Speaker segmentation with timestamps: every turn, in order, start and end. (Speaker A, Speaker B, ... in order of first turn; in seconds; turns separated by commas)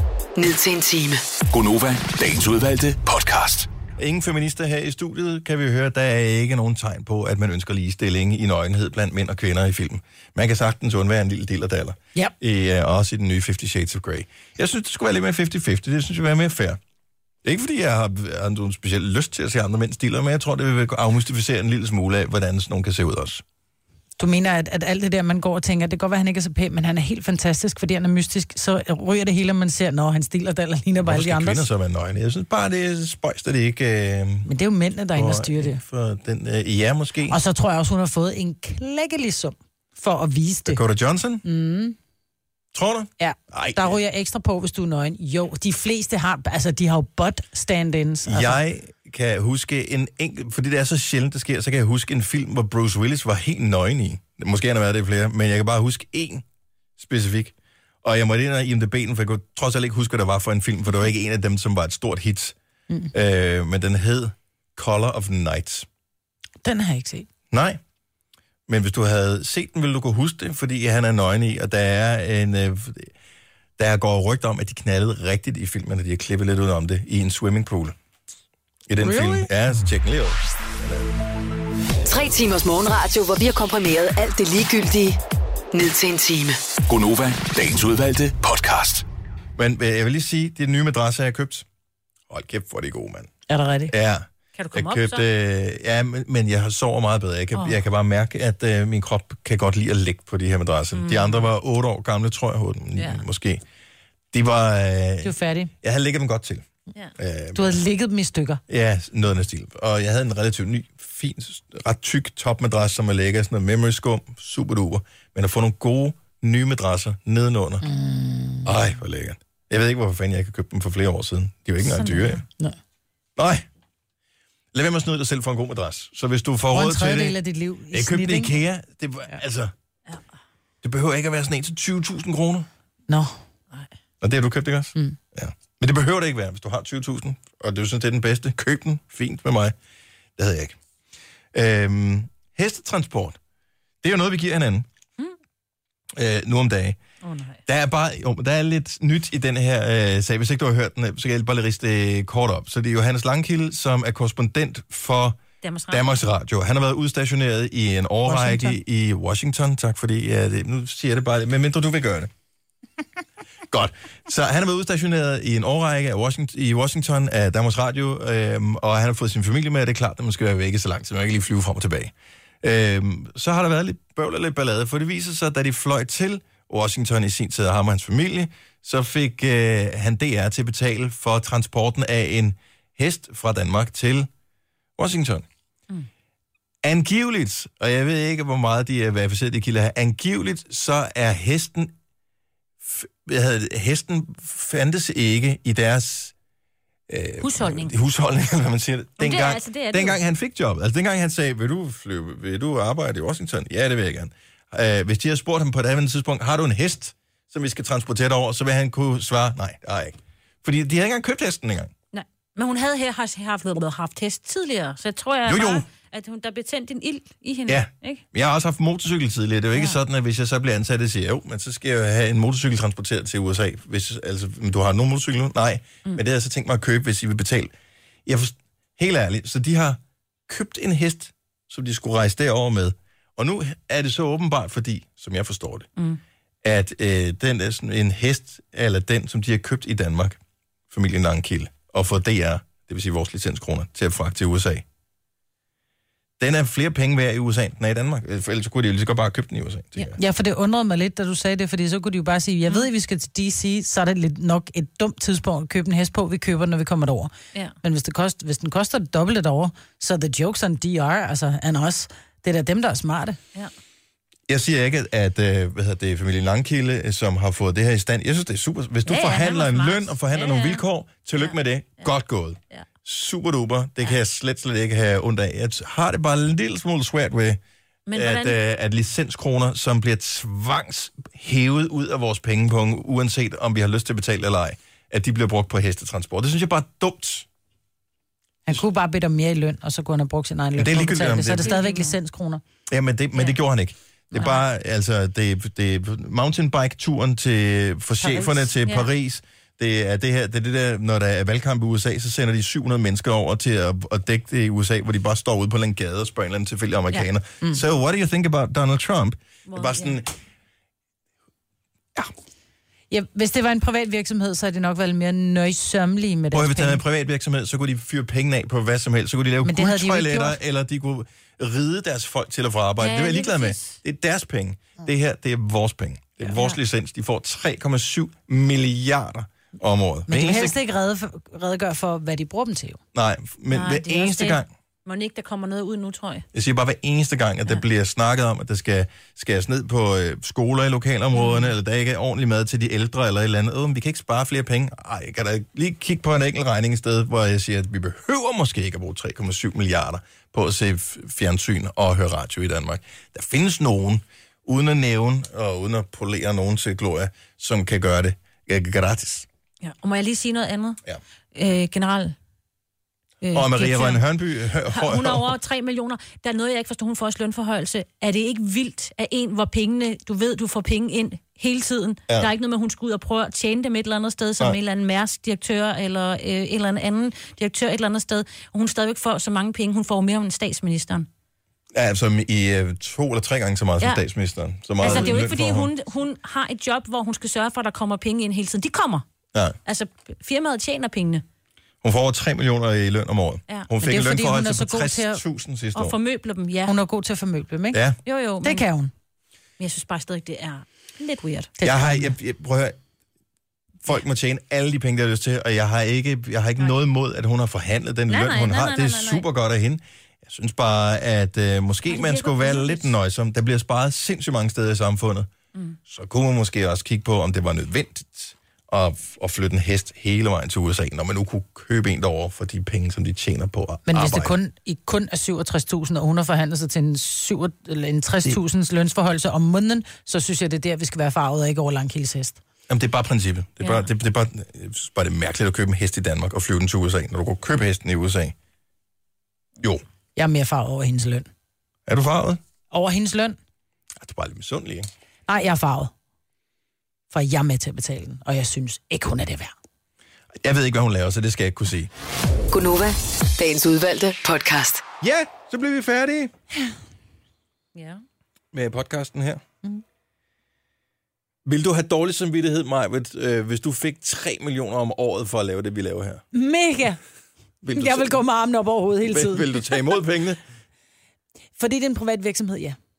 Speaker A: 0.4-1.3, Speaker B: 1.5-3.7, Speaker C: 4.0-16.8, Speaker C: 17.4-23.4, Speaker D: 24.2-31.6, Speaker C: 31.0-34.5, Speaker D: 34.5-35.8, Speaker C: 35.1-37.4, Speaker D: 37.3-40.8, Speaker C: 40.7-41.4, Speaker D: 41.4-42.0, Speaker C: 42.7-44.0, Speaker D: 43.2-48.6, Speaker C: 48.2-56.5, Speaker C: 57.0-62.6, Speaker C: 63.1-65.9, Speaker D: 66.6-67.3, Speaker C: 67.5-67.8, Speaker C: 68.7-73.1, Speaker C: 73.8-78.0, Speaker C: 78.9-81.1, Speaker D: 79.0-79.5, Speaker A: 82.0-85.2, Speaker A: 85.7-86.6, Speaker B: 86.9-89.0, Speaker C: 89.6-91.7, Speaker C: 92.3-93.3, Speaker D: 93.5-93.9, Speaker C: 93.9-103.6, Speaker E: 94.5-95.2, Speaker E: 100.9-101.5, Speaker E: 103.0-103.2, Speaker C: 104.3-106.7, Speaker D: 105.2-105.7, Speaker C: 107.2-107.8, Speaker D: 107.5-108.6, Speaker C: 108.7-117.8, Speaker D: 117.8-118.7, Speaker C: 118.7-122.4, Speaker E: 121.8-122.4, Speaker C: 123.4-123.7, Speaker C: 124.7-127.4, Speaker D: 126.7-128.5, Speaker C: 127.9-129.7, Speaker C: 130.8-132.7, Speaker D: 133.1-133.4, Speaker C: 134.2-139.8, Speaker C: 140.4-140.8, Speaker C: 141.5-143.4, Speaker C: 144.0-144.9, Speaker C: 146.2-147.0, Speaker E: 147.2-147.6, Speaker C: 147.7-162.3, Speaker E: 155.6-156.1, Speaker D: 158.3-158.8, Speaker C: 163.7-184.3, Speaker C: 185.0-185.5, Speaker C: 186.8-191.9, Speaker C: 192.8-196.3, Speaker C: 197.1-211.9, Speaker E: 197.4-197.9, Speaker E: 199.2-200.2, Speaker E: 212.1-218.2, Speaker C: 215.5-215.9, Speaker C: 217.7-227.7, Speaker C: 228.3-235.9, Speaker C: 236.6-240.4, Speaker C: 240.9-244.8, Speaker C: 246.4-250.2, Speaker D: 250.2-263.4, Speaker C: 264.5-277.6, Speaker E: 269.1-270.8, Speaker E: 271.4-272.1, Speaker E: 278.1-278.6, Speaker C: 278.1-287.5, Speaker D: 288.7-292.6, Speaker C: 290.8-291.7, Speaker E: 291.6-292.2, Speaker C: 292.9-310.3, Speaker E: 294.4-294.7, Speaker D: 298.2-298.7, Speaker E: 309.7-310.2, Speaker D: 313.1-317.0, Speaker C: 316.5-330.8, Speaker D: 319.6-320.6, Speaker E: 323.0-324.0, Speaker D: 330.3-333.0, Speaker C: 333.1-334.7, Speaker E: 333.7-336.5, Speaker C: 336.5-359.5, Speaker E: 341.4-341.7, Speaker E: 359.8-361.0, Speaker E: 361.6-362.4, Speaker E: 363.4-364.2, Speaker C: 363.5-365.6, Speaker E: 364.9-381.3, Speaker C: 381.9-385.9, Speaker E: 385.0-389.2, Speaker D: 385.0-385.4, Speaker E: 389.9-391.4, Speaker C: 392.0-396.2, Speaker D: 394.0-395.4, Speaker E: 395.9-397.0, Speaker D: 396.9-398.0, Speaker C: 397.9-398.2, Speaker E: 398.3-398.9, Speaker D: 398.6-399.1, Speaker E: 399.8-401.7, Speaker D: 401.8-402.3, Speaker C: 401.8-403.0, Speaker C: 404.0-415.5, Speaker E: 408.3-409.4, Speaker E: 412.1-413.1, Speaker C: 416.1-424.5, Speaker D: 424.1-432.6, Speaker C: 432.9-438.6, Speaker E: 433.8-434.1, Speaker D: 440.4-441.5, Speaker C: 442.1-442.6, Speaker D: 442.9-443.6, Speaker C: 444.2-445.1, Speaker D: 445.5-446.1, Speaker D: 447.3-449.7, Speaker C: 450.6-452.1, Speaker A: 452.7-455.1, Speaker C: 455.2-456.5, Speaker E: 457.9-458.2, Speaker C: 458.7-459.6, Speaker C: 461.6-466.4, Speaker D: 466.5-467.2, Speaker C: 467.8-468.4, Speaker D: 467.9-469.8, Speaker C: 469.3-470.6, Speaker D: 471.8-473.0